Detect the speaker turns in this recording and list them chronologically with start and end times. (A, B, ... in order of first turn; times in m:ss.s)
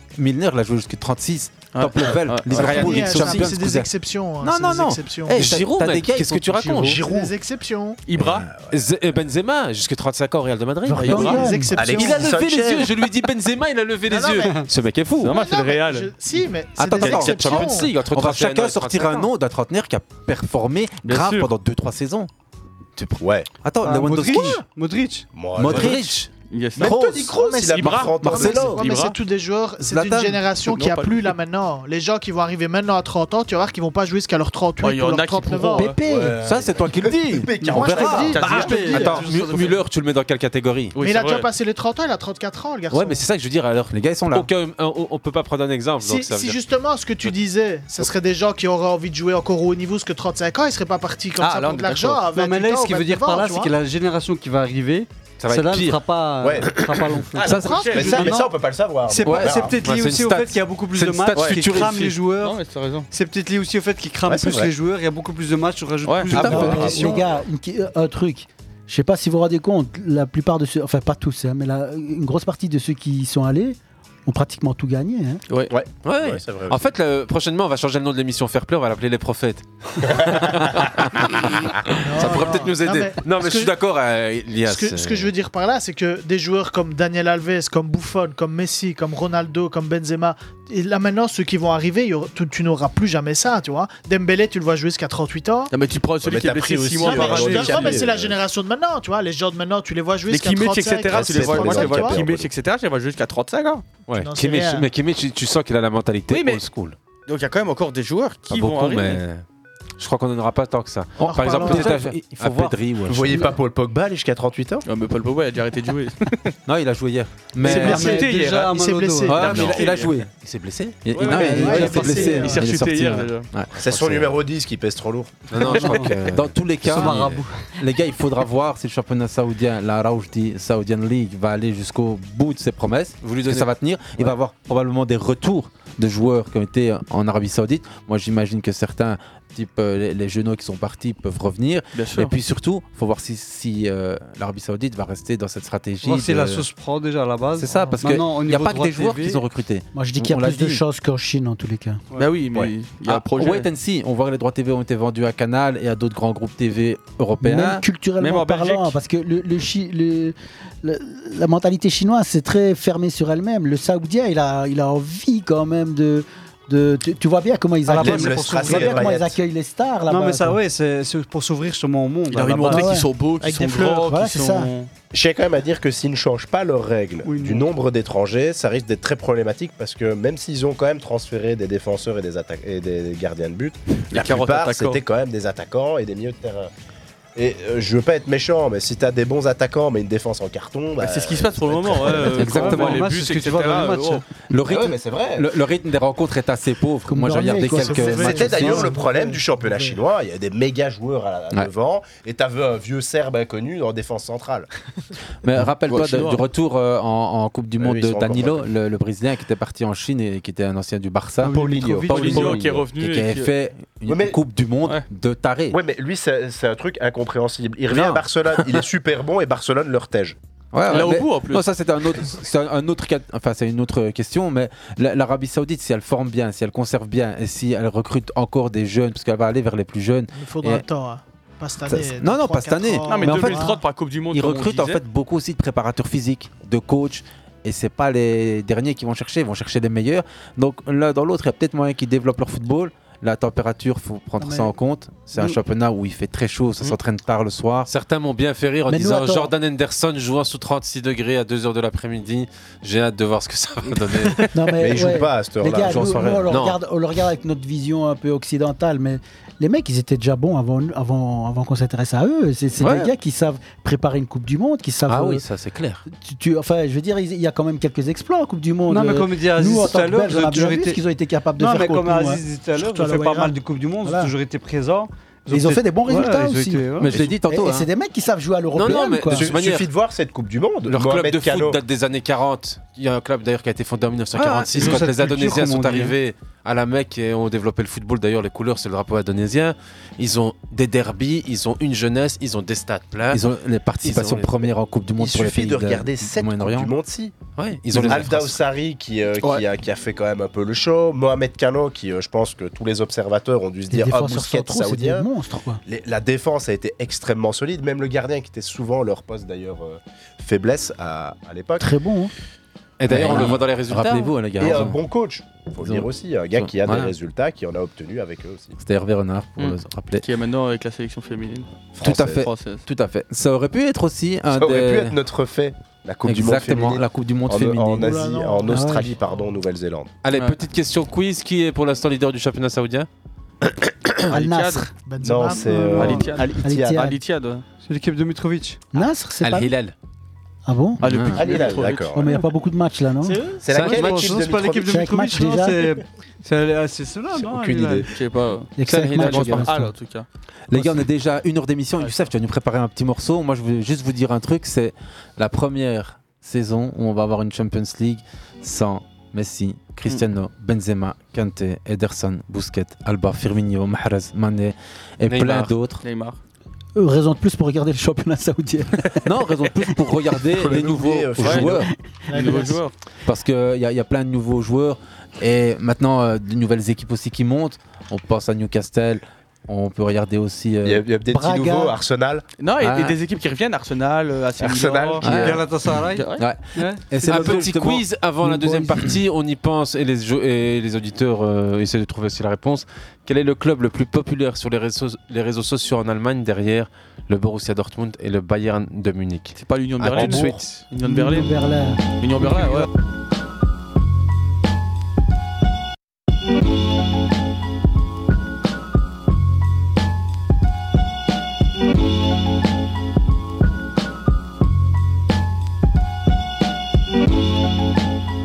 0:00.2-0:07.0 A
0:01.7-0:03.1 B
0:02.5-0:05.6 C
0:02.5-0:03.5 D
0:05.3-0:07.0 D
0:06.6-0:07.3 E
0:06.8-0:08.0 C
0:08.1-0:08.5 B
0:08.2-0:08.8 E
0:08.7-0:11.4 D
0:10.9-0:11.8 F
0:11.0-0:11.4 B
0:11.1-0:12.3 C
0:11.8-0:12.9 E
0:12.0-0:15.3 D
0:14.1-0:14.6 C
0:15.2-0:16.1 B
0:15.3-0:17.9 C
0:16.8-0:22.3 A
0:17.0-0:19.3 D
0:21.1-0:21.5 B
0:23.0-0:24.6 A
0:23.2-0:23.5 E
0:23.8-0:25.3 G
0:25.3-0:26.1 E
0:25.6-0:26.3 A
0:26.5-0:26.9 B
0:26.8-0:28.8 E
0:26.8-0:36.0 C
0:27.7-0:29.2 B
0:28.2-0:28.8 A
0:29.8-0:30.4 A
0:30.7-0:31.3 B
0:34.8-0:36.0 B
0:35.7-0:36.4 F
0:36.0-0:38.7 E
0:36.4-0:39.5 A
0:37.7-0:39.3 C
0:38.3-0:39.1 B
0:38.4-0:39.8 G
0:38.7-0:40.9 D
0:41.0-0:41.5 B
0:41.0-0:43.2 C
0:42.9-0:46.6 D
0:43.9-0:44.5 A
0:46.0-0:53.7 C
0:51.4-0:52.3 B
0:52.3-0:58.5 G
0:55.4-0:56.0 D
0:56.4-0:56.8 E
0:57.4-0:59.8 E
0:57.4-0:58.4 C
0:57.4-0:58.3 B
0:59.1-1:02.6 G
0:59.3-1:02.1 D
1:01.4-1:03.1 B
1:03.1-1:07.2 G
1:04.3-1:04.7 E
1:06.0-1:06.5 B
1:06.3-1:07.4 E
1:06.3-1:15.4 F
1:06.4-1:06.9 D
1:15.7-1:16.8 E
1:16.0-1:25.3 D
1:20.0-1:20.8 E
1:22.0-1:23.7 C
1:24.6-1:35.7 C
1:35.7-1:38.1 B
1:36.2-1:38.4 E
1:37.0-1:42.2 C
1:40.3-1:43.8 B
1:41.1-1:42.5 E
1:44.1-1:47.0 D
1:44.1-1:44.9 C
1:46.3-1:46.6 B
1:47.3-1:49.2 B
1:48.5-1:49.4 D
1:50.0-1:53.3 D
1:51.2-1:53.5 A
1:51.2-1:52.0 C
1:53.1-1:54.8 E
1:54.9-1:56.5 B
1:56.7-1:58.2 A
1:57.6-1:59.8 G
1:57.6-1:59.7 C
1:57.6-2:00.1 B
1:59.3-2:00.3 A
1:59.5-2:01.1 D
2:01.0-2:04.3 A
2:01.1-2:03.5 B
2:01.3-2:02.5 G
2:01.3-2:02.7 C
2:03.8-2:05.5 E
2:05.5-2:07.4 D
2:05.6-2:26.7 A
2:05.8-2:06.1 G
2:06.8-2:07.6 G
2:13.2-2:14.3 D
2:22.0-2:22.3 B
2:26.0-2:29.4 G
2:27.6-2:30.8 A
2:29.9-2:32.0 F
2:32.2-2:33.7 B
2:33.1-2:37.8 A
2:37.4-2:50.6 F
2:38.2-2:39.0 B
2:47.9-2:49.1 G
2:47.9-2:49.4 E
2:50.1-2:52.9 G
2:52.3-2:54.9 B
2:52.7-2:53.1 F
2:53.4-2:53.8 C
2:53.8-2:54.7 F
2:55.1-3:06.7 E
2:57.2-2:57.7 G
3:04.1-3:05.0 B
3:07.4-3:12.5 E
3:11.0-3:14.2 B
3:12.3-3:13.1 A
3:12.3-3:14.2 G
3:14.5-3:18.8 A
3:14.6-3:15.5 E
3:17.1-3:20.0 F
3:17.6-3:19.2 C
3:18.2-3:24.7 E
3:25.4-3:35.8 A
3:25.9-3:26.4 B
3:27.8-3:28.6 E
3:31.4-3:32.5 G
3:31.4-3:32.9 E
3:32.1-3:33.5 B
3:34.1-3:34.4 E
3:35.7-3:40.4 E
3:37.9-3:38.8 A
3:40.7-3:50.8 A
3:40.9-3:41.7 B
3:50.3-3:53.8 C
3:51.9-3:53.7 A
3:53.1-3:55.0 B
3:54.3-4:07.9 A
4:04.4-4:04.8 F
4:07.9-4:14.5 D
4:08.9-4:09.5 F
4:14.5-4:25.4 F
4:14.8-4:16.5 E
4:15.9-4:16.5 A
4:16.5-4:16.8 D
4:22.8-4:23.1 D
4:25.1-4:26.0 D
4:26.1-4:32.4 F
4:28.9-4:31.0 G
4:31.6-4:37.1 G
4:32.8-4:33.6 C
4:34.0-4:34.3 F
4:35.5-4:39.5 F
4:37.0-4:37.9 A
4:37.1-4:37.7 D
4:38.8-4:39.9 D
4:39.3-4:41.8 E
4:40.9-4:53.4 D
4:44.4-4:46.1 A
4:44.8-4:45.2 G
4:53.3-4:56.9 A
4:54.0-4:54.6 D
4:55.2-4:57.4 E
4:57.6-4:58.5 D
4:57.9-4:58.5 A
4:57.9-5:05.3 E
5:03.9-5:05.8 F
5:05.9-5:11.9 E
5:11.8-5:12.3 F
5:13.0-5:14.8 D
5:13.1-5:15.0 A
5:13.2-5:13.6 E
5:14.6-5:18.8 E
5:15.8-5:16.1 A
5:16.8-5:17.1 A
5:18.8-5:20.2 A
5:19.6-5:21.7 B
5:22.0-5:22.5 E
5:22.0-5:25.2 A
5:22.3-5:22.8 B
5:24.5-5:30.1 E
5:26.2-5:28.2 A
5:28.0-5:29.4 C
5:28.7-5:29.1 F
5:30.2-5:33.1 D
5:30.3-5:30.6 B
5:34.3-5:34.9 B
5:34.3-5:34.9 F
5:35.0-5:36.2 C
5:35.2-5:37.0 E
5:35.5-5:37.2 F
5:36.0-5:37.6 B
5:37.8-5:38.9 G
5:38.9-5:39.7 F
5:39.4-5:39.9 D
5:40.6-5:43.4 F
5:41.0-5:42.1 B
5:41.1-5:41.4 A
5:41.4-5:42.3 E
5:43.2-5:43.6 C
5:43.6-5:45.0 E
5:43.7-5:48.1 G
5:44.8-5:46.0 F
5:47.3-5:48.1 E
5:48.1-5:48.7 B
5:48.8-5:49.9 F
5:48.8-5:49.7 D
5:49.2-5:49.6 A
5:49.2-5:50.3 B
5:50.7-6:06.0 A
6:05.2-6:05.8 D
6:06.0-6:06.4 B
6:07.0-6:09.2 F
6:09.2-6:11.9 A
6:10.5-6:11.9 E
6:11.4-6:11.8 B
6:12.3-6:12.8 C
6:12.3-6:12.9 B
6:13.2-6:21.0 A
6:20.8-6:22.4 E
6:21.3-6:22.0 F
6:22.6-6:25.3 B
6:22.8-6:23.2 A
6:24.6-6:25.6 E
6:25.2-6:25.6 A
6:25.3-6:27.4 G
6:26.1-6:26.4 B
6:26.4-6:29.2 A
6:27.2-6:39.6 D
6:39.6-6:41.5 B
6:40.1-6:40.8 D
6:40.2-6:42.7 F
6:42.2-6:42.9 B